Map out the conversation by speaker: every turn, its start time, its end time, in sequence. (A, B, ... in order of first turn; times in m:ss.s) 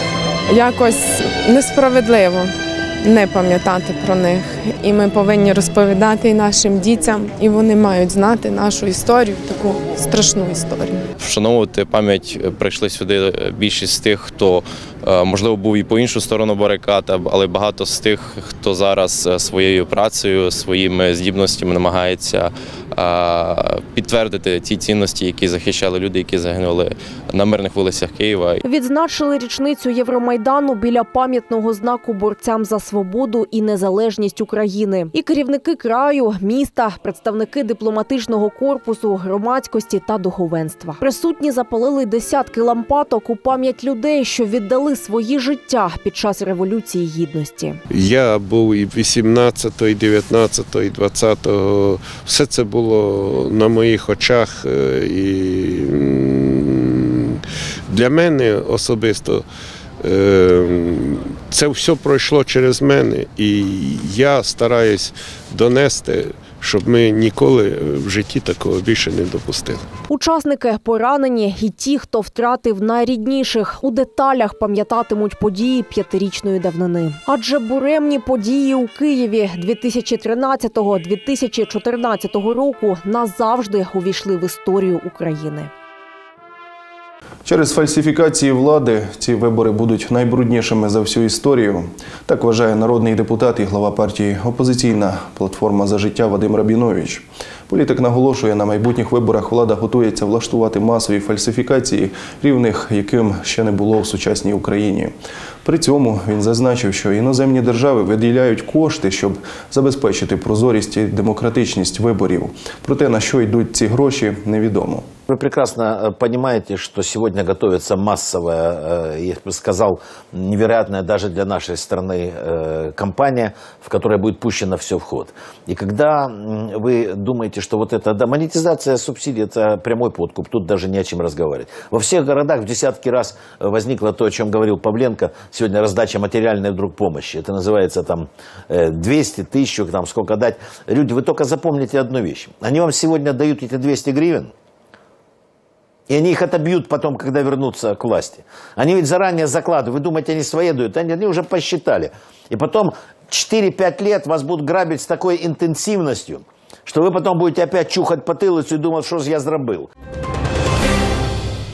0:00.5-0:11.0 A
0:11.2-0:28.6 B
0:28.6-0:47.8 C
0:47.9-0:56.4 D
0:57.9-0:59.4 D
1:00.0-1:09.8 D
1:10.1-1:25.7 C
1:27.4-1:45.1 E
1:45.6-1:55.0 E
1:55.3-2:24.5 F
2:26.1-2:39.9 F